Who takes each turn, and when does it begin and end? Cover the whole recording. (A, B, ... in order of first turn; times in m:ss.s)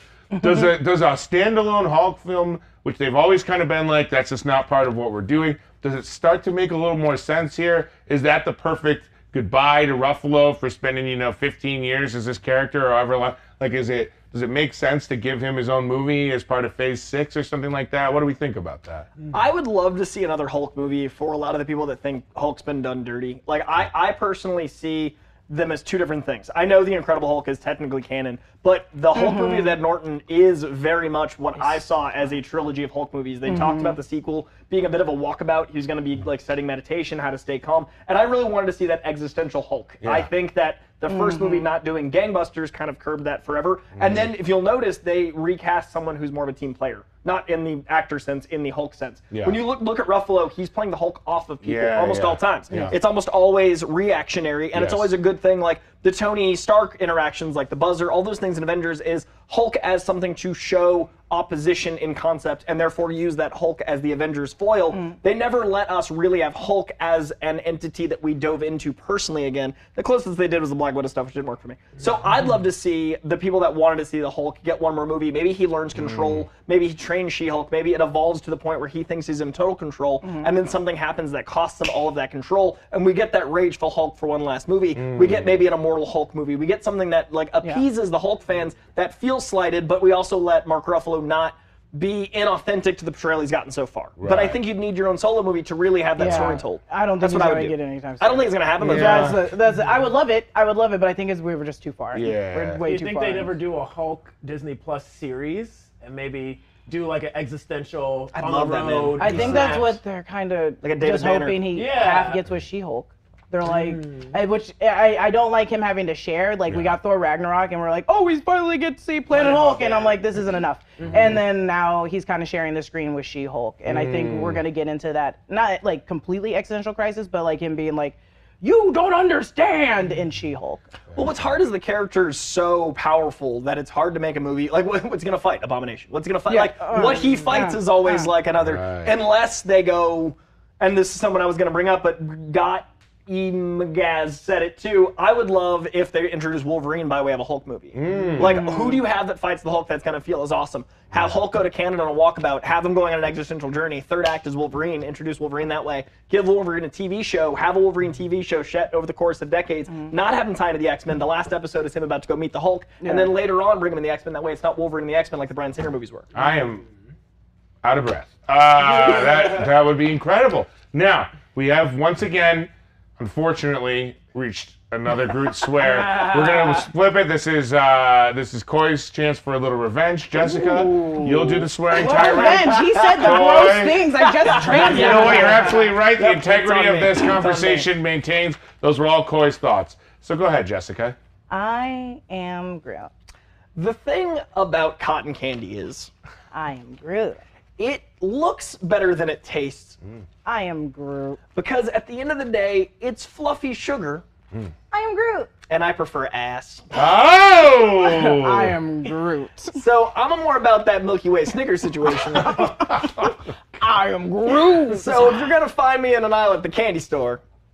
0:00.3-0:19.1 A
0:19.3-1:39.4 B
0:29.1-0:29.8 C
0:33.5-0:34.0 C
0:40.0-0:40.3 A
0:41.1-0:41.7 C
0:44.0-0:44.3 A
0:49.3-0:49.6 A
0:51.6-0:52.9 A
0:54.7-0:55.1 A
1:04.9-1:05.2 C
1:16.0-1:16.5 A
1:20.2-1:20.5 C
1:25.0-1:25.6 A
1:34.2-1:34.6 A
1:36.2-1:43.6 C
1:36.2-1:36.5 A
1:38.8-1:39.4 A
1:42.1-1:42.8 A
1:42.8-1:50.0 D
1:48.3-1:49.9 B
1:49.2-2:10.8 C
1:50.8-1:51.7 B
1:51.7-1:52.4 D
1:53.6-1:54.3 D
1:56.7-1:57.0 A
1:59.3-2:00.3 D
2:01.0-2:01.3 D
2:01.0-2:01.4 A
2:03.9-2:04.6 A
2:11.2-2:46.3 B
2:16.5-2:18.3 C
2:18.6-2:19.2 A
2:27.9-2:28.6 A
2:28.4-2:29.0 C
2:43.0-2:43.3 C
2:46.4-2:46.8 A
2:46.4-2:46.6 D
2:47.8-3:04.0 A
2:49.1-2:49.4 D
2:56.0-2:56.6 D
3:00.4-3:03.5 B
3:02.0-3:05.6 C
3:04.3-3:07.9 B
3:04.7-3:11.2 A
3:11.5-3:13.1 C
3:13.8-3:16.1 B
3:16.5-3:17.4 C
3:17.8-3:20.0 B
3:20.4-3:21.4 C
3:21.5-3:24.2 B
3:24.9-3:25.5 C
3:25.7-3:26.8 B
3:26.9-3:28.7 A
3:28.0-3:29.8 C
3:29.8-3:32.7 B
3:32.4-3:33.0 C
3:32.5-3:33.5 A
3:33.8-3:35.5 C
3:34.6-3:37.4 B